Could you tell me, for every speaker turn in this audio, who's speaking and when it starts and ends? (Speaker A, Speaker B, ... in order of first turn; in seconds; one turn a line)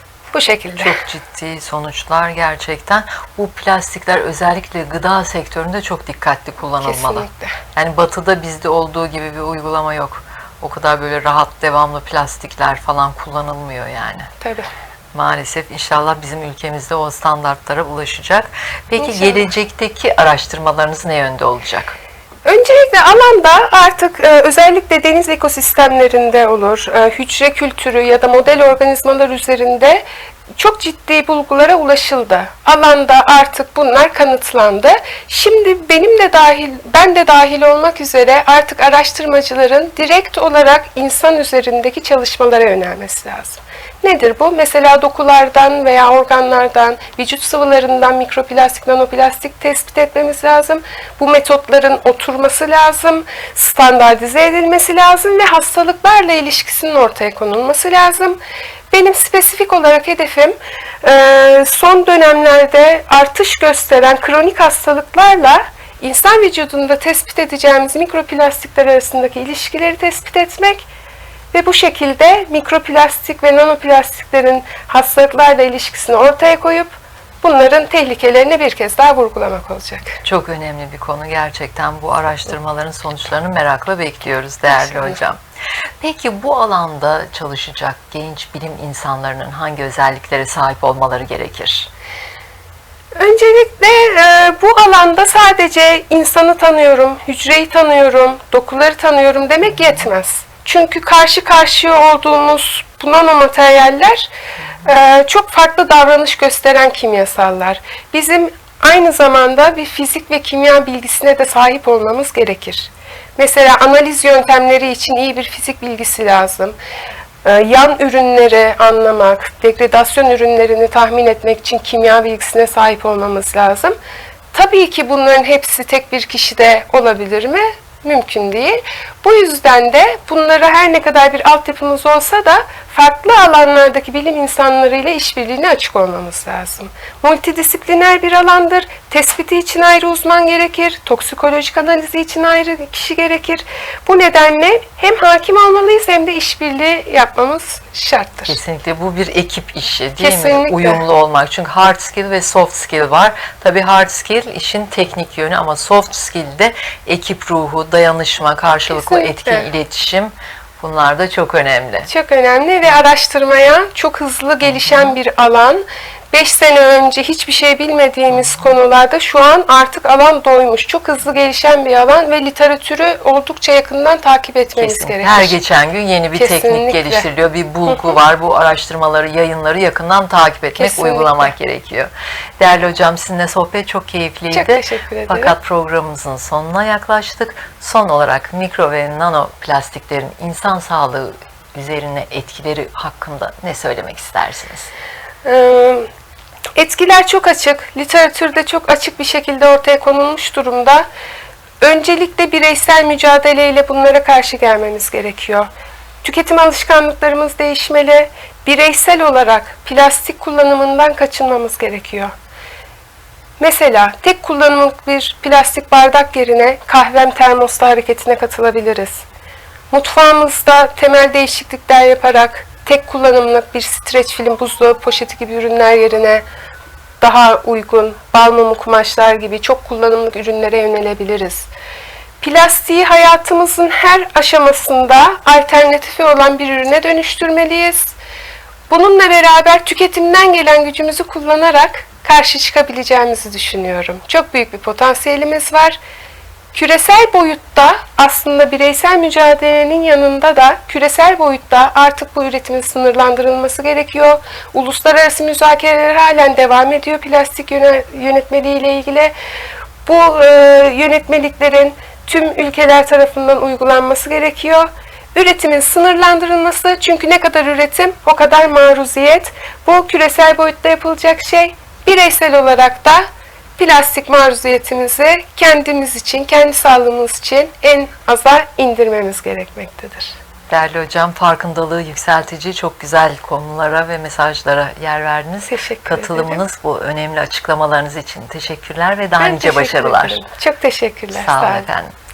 Speaker A: 0.3-1.0
Speaker B: 0.8-14.3
Speaker A: 6.8-7.6
Speaker A: 14.4-14.7
Speaker B: 15.1-21.9
Speaker A: 19.0-19.5
Speaker A: 22.4-30.0
Speaker A: 30.6-58.4
Speaker A: 58.9-70.9
Speaker A: 71.5-80.2
Speaker B: 80.2-85.4
Speaker A: 84.7-85.2
Speaker B: 86.0-91.9
Speaker A: 93.2-104.3
Speaker A: 104.8-116.8
Speaker A: 117.4-123.9
Speaker A: 124.5-148.6
Speaker B: 148.5-162.1
Speaker A: 150.2-151.0
Speaker A: 158.9-159.7
Speaker A: 162.1-175.6
Speaker B: 164.6-165.1
Speaker B: 174.8-182.1
Speaker A: 176.3-177.3
Speaker A: 180.8-181.5
Speaker B: 182.6-194.9
Speaker A: 184.5-185.5
Speaker A: 195.4-196.1
Speaker A: 196.8-201.0
Speaker A: 201.8-205.7
Speaker A: 206.2-212.3
Speaker A: 213.6-219.2
Speaker A: 219.9-226.4
Speaker A: 227.2-231.7
Speaker A: 232.4-238.2
Speaker A: 238.9-246.0
Speaker A: 246.7-259.3
Speaker A: 260.0-273.2
Speaker A: 273.8-280.3
Speaker B: 280.7-290.4
Speaker A: 285.7-286.6
Speaker A: 289.4-291.9
Speaker B: 291.3-292.1